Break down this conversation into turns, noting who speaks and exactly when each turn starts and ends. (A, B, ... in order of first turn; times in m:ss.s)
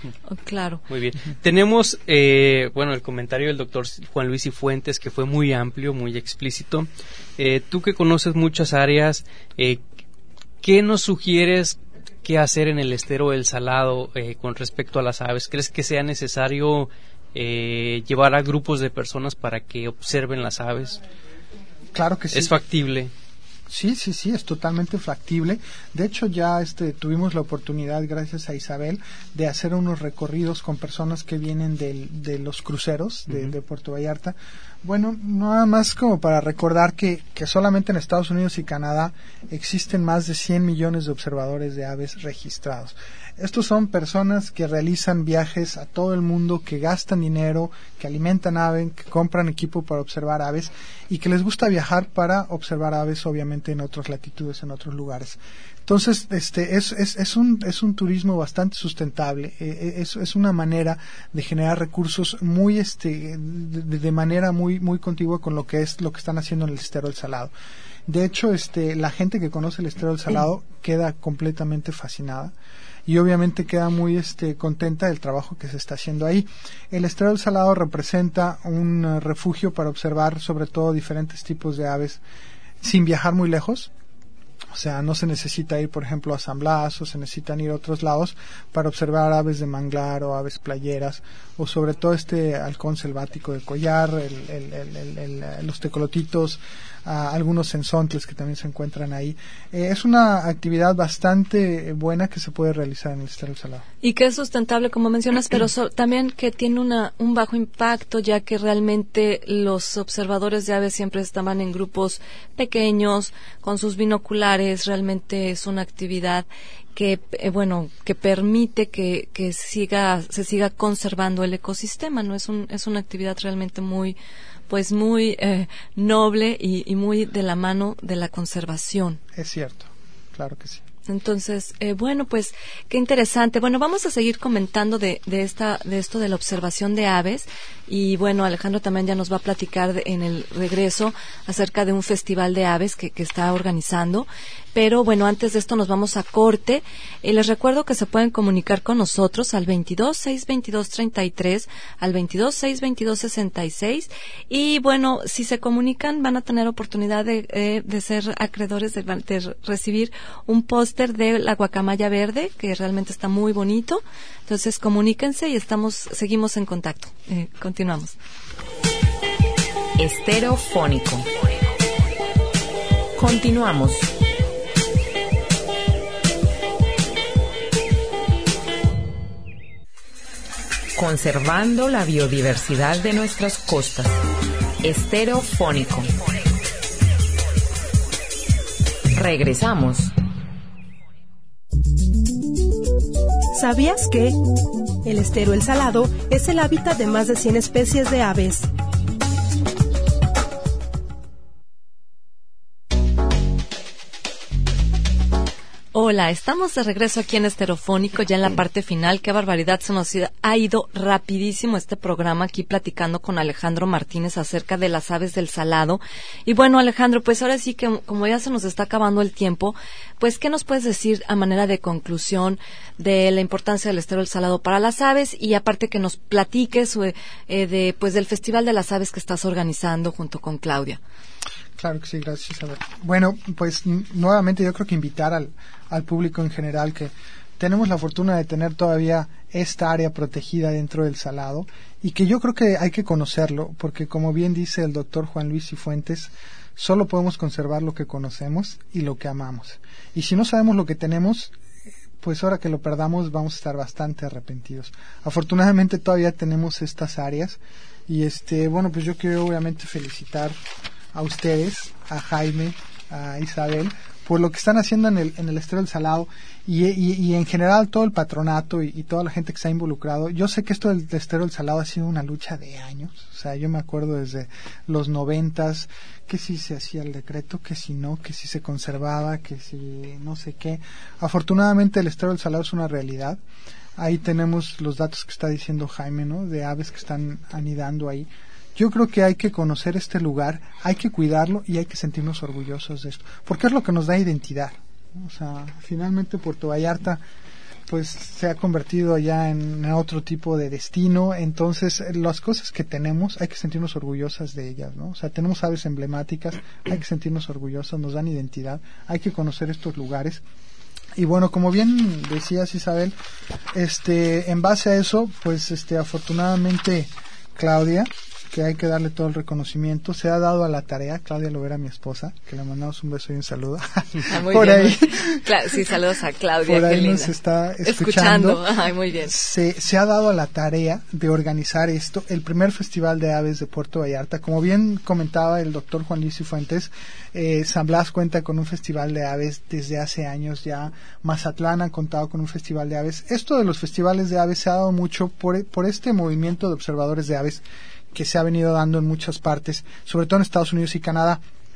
0:00.3-0:00.8 A
0:00.9-0:09.8 B
0:10.6-0:21.0 B
0:21.9-0:22.5 C
0:22.3-0:23.1 B
0:23.7-1:07.5 C
1:08.1-1:12.5 C
1:13.1-1:22.2 C
1:22.8-1:23.9 C
1:24.7-1:43.8 C
1:44.0-2:04.2 A
2:04.7-2:09.2 A
2:09.3-2:10.8 C
2:11.1-2:48.2 A
2:50.0-2:51.3 D
2:53.2-2:54.1 D
3:01.0-3:04.2 D
3:04.8-3:06.2 D
3:09.1-3:10.1 D
3:13.6-3:14.4 E
3:15.0-3:18.7 E
3:25.9-3:51.0 A
3:51.8-4:11.6 C
4:12.2-4:20.6 C
4:21.1-4:43.4 C
4:44.0-4:57.2 C
4:57.9-5:10.4 C
5:11.2-5:13.2 C
5:13.7-5:25.8 C
5:24.3-5:27.3 A
5:26.6-5:28.6 C
5:27.8-5:29.3 A
5:29.2-5:51.4 C